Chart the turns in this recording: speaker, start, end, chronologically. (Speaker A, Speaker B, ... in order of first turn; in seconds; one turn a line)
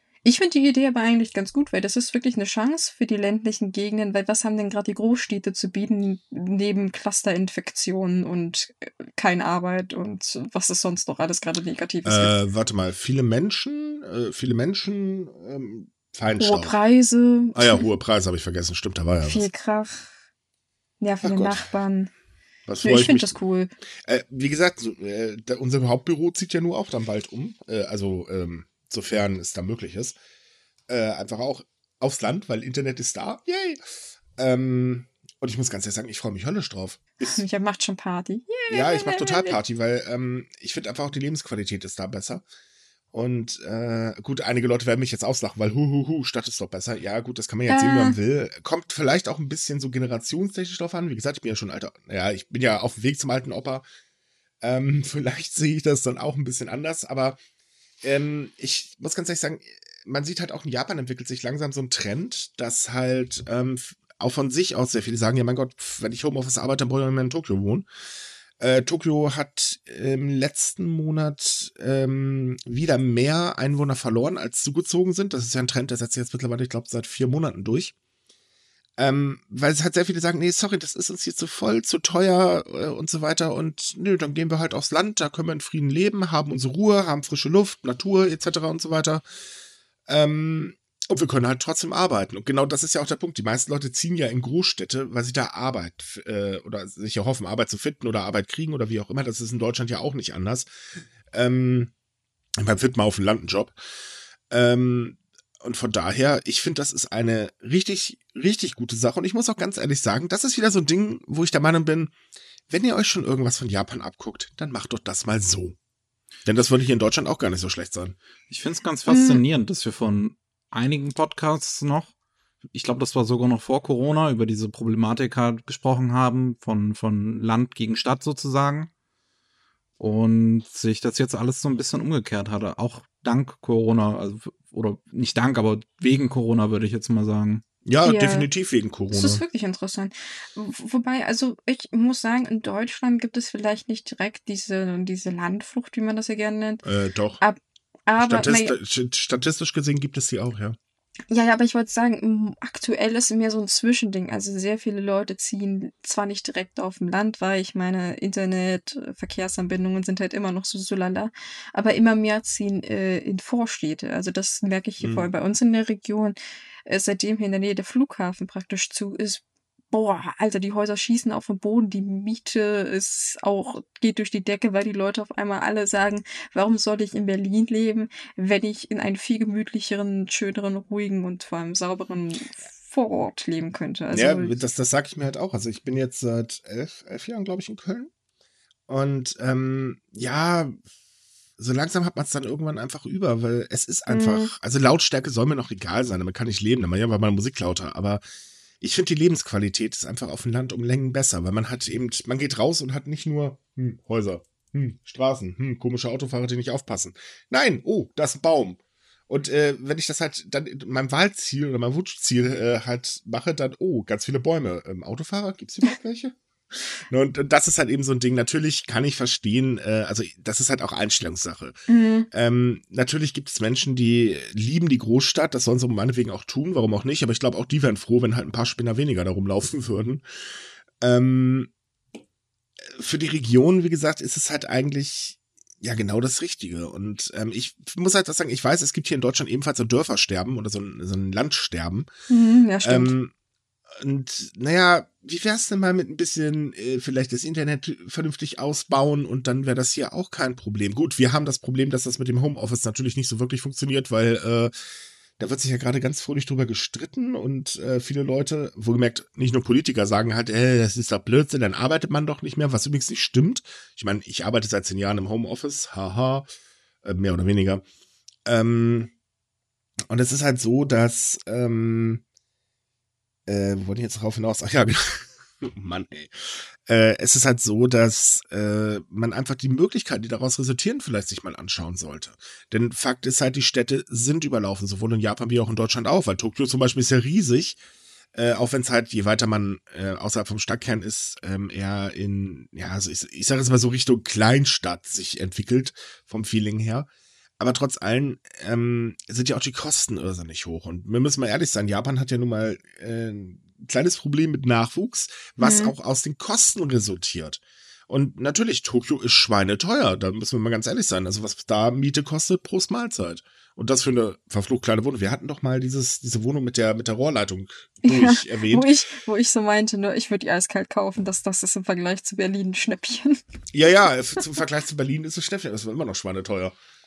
Speaker A: 0.2-12.3
Speaker B: 12.0-16.8
Speaker A: 16.4-17.9
Speaker B: 17.5-19.5
Speaker A: 19.2-20.1
Speaker A: 21.0-22.1
Speaker B: 21.2-21.6
Speaker B: 22.7-23.4
Speaker A: 22.8-23.7
Speaker B: 24.0-30.1
Speaker B: 30.9-37.4
Speaker A: 37.2-39.6
Speaker B: 38.7-42.4
Speaker B: 43.1-53.9
Speaker A: 47.7-48.1
Speaker B: 54.6-57.4
Speaker B: 58.0-67.9
Speaker B: 68.6-77.9
Speaker B: 79.0-89.2
Speaker B: 90.1-100.7
Speaker B: 101.3-101.9
Speaker B: 102.6-103.8
Speaker B: 104.5-112.1
Speaker B: 112.7-115.8
Speaker B: 116.5-118.2
Speaker C: 118.5-122.1
Speaker A: 119.1-119.4
Speaker C: 122.7-128.9
Speaker C: 130.0-137.6
Speaker B: 137.8-139.4
Speaker A: 138.0-138.5
Speaker A: 139.1-146.8
Speaker B: 146.8-147.4
Speaker A: 147.4-148.7
Speaker B: 148.2-150.8
Speaker A: 151.3-184.6
Speaker B: 165.0-165.3
Speaker B: 184.1-188.1
Speaker B: 188.9-190.8
Speaker B: 191.6-198.2
Speaker A: 194.1-194.5
Speaker B: 198.8-221.8
Speaker A: 221.9-222.3
Speaker B: 222.3-230.2
Speaker B: 231.0-231.7
Speaker B: 232.9-242.1
Speaker A: 242.3-243.1
Speaker B: 242.8-243.3
Speaker B: 243.9-254.7
Speaker B: 255.4-266.5
Speaker B: 267.0-267.8
Speaker B: 268.4-269.1
Speaker B: 270.1-272.2
Speaker B: 273.5-287.8
Speaker B: 288.3-297.1
Speaker B: 297.6-318.9
Speaker A: 305.6-305.9
Speaker A: 318.0-323.4
Speaker B: 323.7-326.7